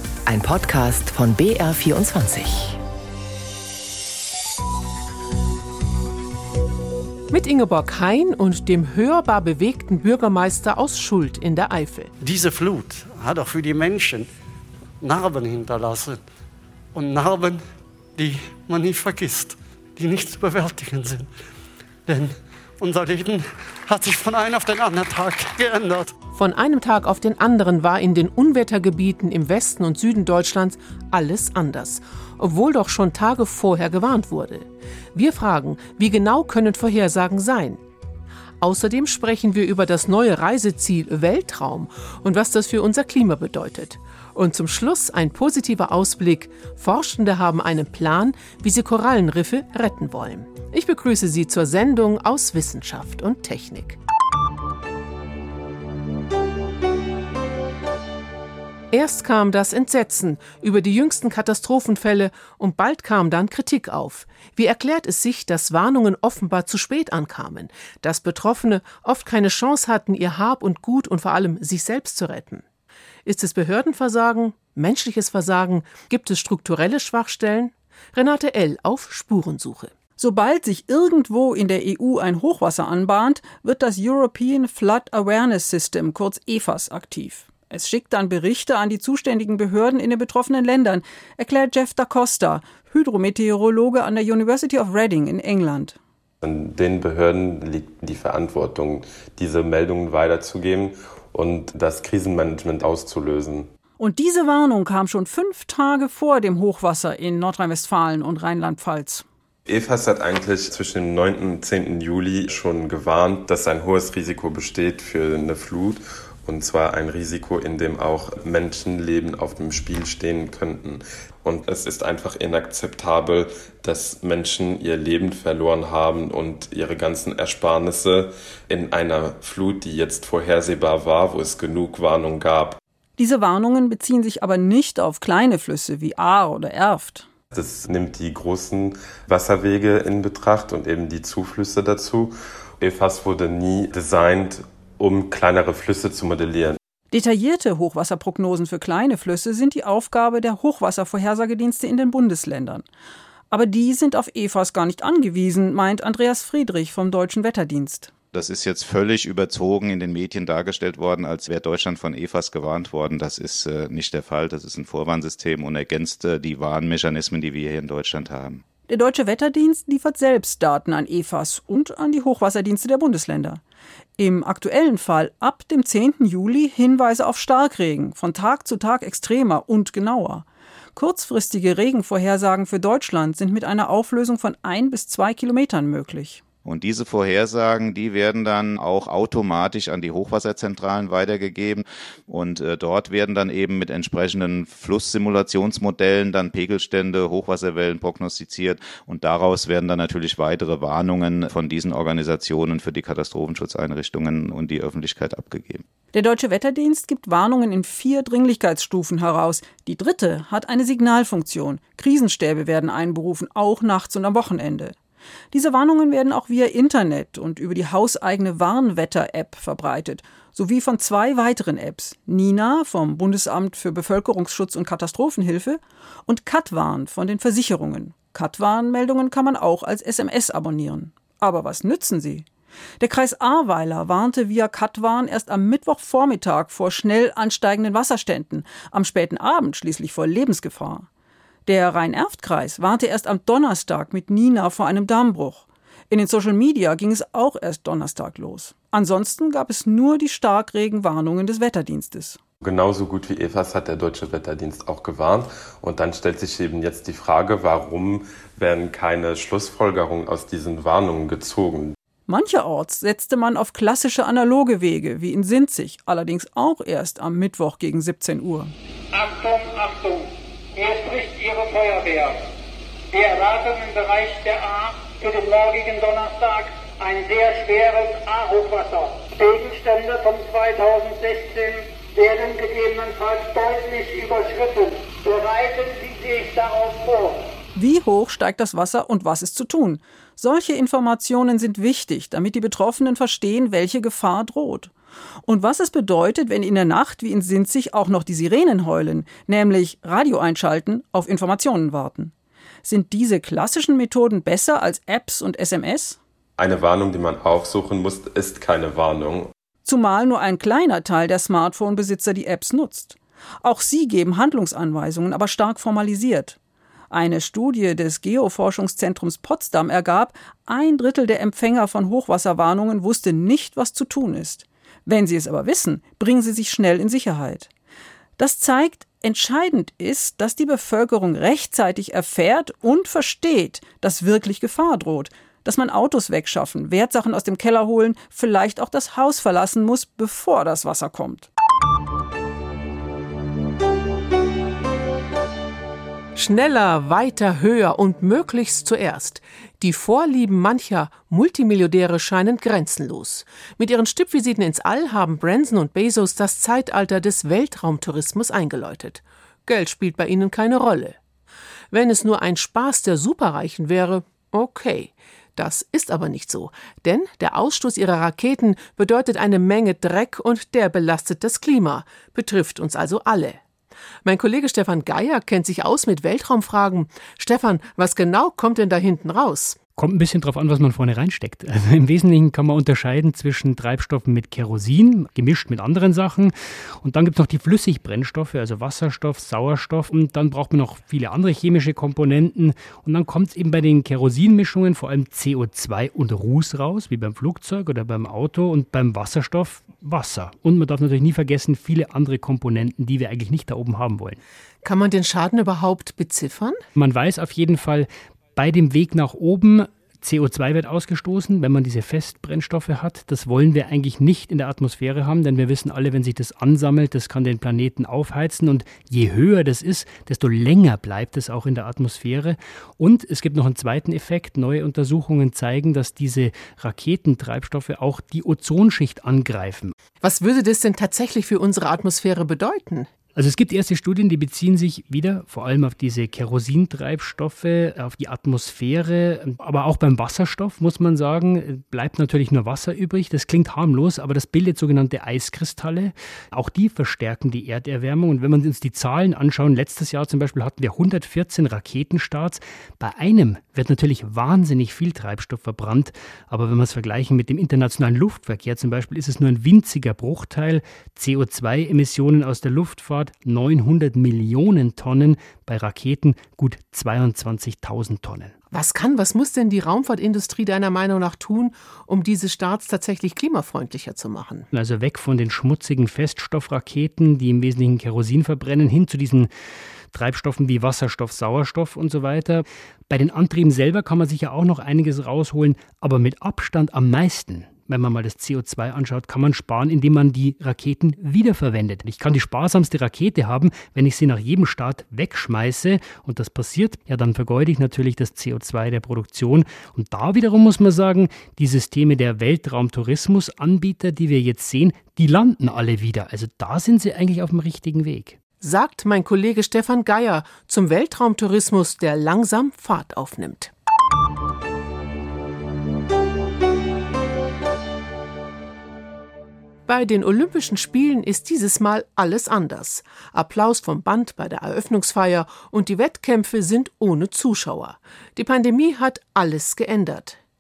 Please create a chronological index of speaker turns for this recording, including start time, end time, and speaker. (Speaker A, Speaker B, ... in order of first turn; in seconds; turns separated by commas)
Speaker A: 0.3-2.8, Speaker B: 7.3-12.1, Speaker C: 12.2-14.3, Speaker C: 15.0-16.2, Speaker C: 16.9-21.3, Speaker C: 22.1-26.1, Speaker B: 26.4-37.8, Speaker B: 38.6-54.0, Speaker B: 58.9-72.6, Speaker B: 73.3-79.9, Speaker D: 80.2-96.0, Speaker E: 96.4-103.7, Speaker D: 104.0-109.2, Speaker E: 109.7-132.8, Speaker D: 133.2-137.3, Speaker E: 137.5-146.8, Speaker D: 147.1-152.9, Speaker D: 153.5-158.1, Speaker F: 158.3-168.6, Speaker D: 168.9-173.6, Speaker D: 174.2-180.4, Speaker D: 181.0-186.4, Speaker F: 186.7-205.8, Speaker D: 206.1-215.0, Speaker D: 215.5-232.5, Speaker D: 233.0-241.1, Speaker D: 241.7-252.4, Speaker E: 252.6-261.9, Speaker D: 262.3-268.7, Speaker G: 269.1-272.4, Speaker G: 273.1-287.4, Speaker D: 287.8-294.9, Speaker D: 295.4-302.3, Speaker D: 302.8-306.2, Speaker E: 306.6-309.5, Speaker D: 309.8-316.6, Speaker D: 317.1-327.7, Speaker D: 328.4-341.5, Speaker B: 346.4-361.2, Speaker B: 361.9-373.6, Speaker B: 374.2-379.8, Speaker H: 380.0-404.4, Speaker B: 404.8-406.8, Speaker H: 407.0-429.9, Speaker B: 430.2-433.1, Speaker H: 433.4-468.5, Speaker B: 468.7-474.7, Speaker H: 474.7-479.5, Speaker H: 480.1-508.4, Speaker B: 508.6-513.7, Speaker B: 519.9-530.4